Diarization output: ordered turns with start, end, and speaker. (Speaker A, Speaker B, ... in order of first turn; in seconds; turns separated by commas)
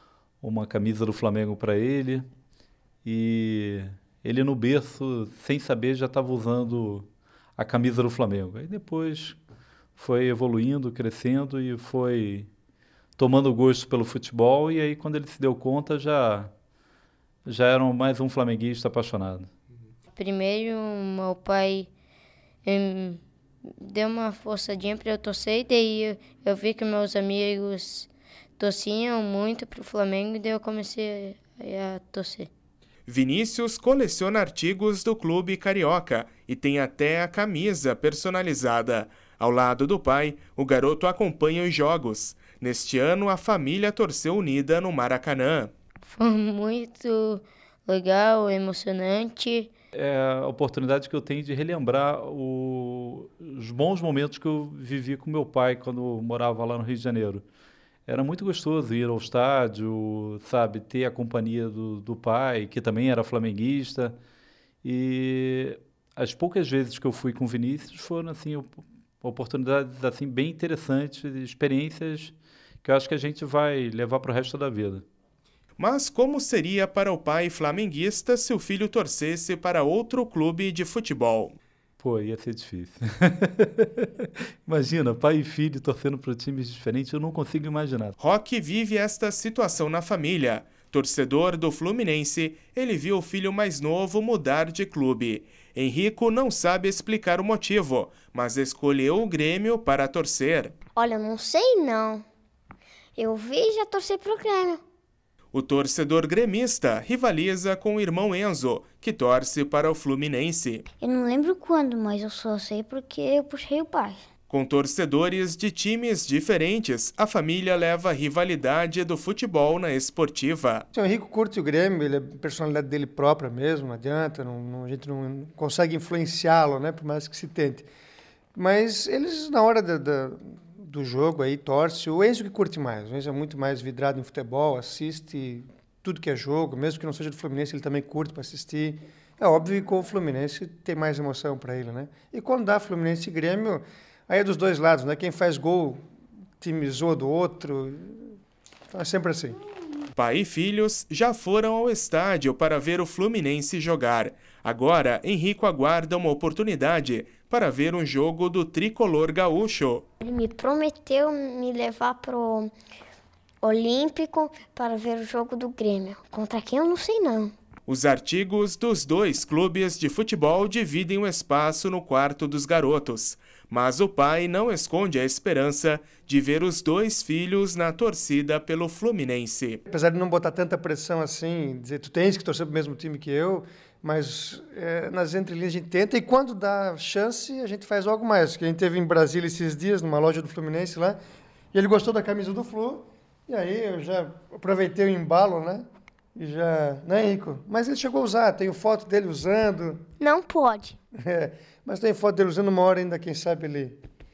Speaker A: 0.4-2.3, Speaker A: 3.0-9.4, Speaker A: 9.9-12.5, Speaker A: 13.2-16.5, Speaker A: 17.4-19.5, Speaker B: 20.1-21.9, Speaker B: 22.6-23.2, Speaker B: 23.8-32.5, Speaker C: 33.0-45.7, Speaker B: 46.0-49.7, Speaker A: 49.9-57.4, Speaker A: 58.0-64.2, Speaker A: 64.8-75.0, Speaker C: 75.8-81.5, Speaker A: 82.0-88.1, Speaker C: 88.2-100.7, Speaker D: 101.0-102.2, Speaker D: 103.2-104.8, Speaker C: 105.5-110.8, Speaker D: 111.0-114.2, Speaker C: 114.5-120.8, Speaker E: 120.9-127.9, Speaker E: 128.5-146.0, Speaker E: 146.6-148.3, Speaker E: 148.9-149.6, Speaker C: 150.1-160.0, Speaker D: 160.2-162.7, Speaker D: 163.6-167.5, Speaker C: 167.9-179.8, Speaker E: 179.9-191.2, Speaker E: 191.7-200.0, Speaker D: 200.2-201.0, Speaker E: 201.2-204.0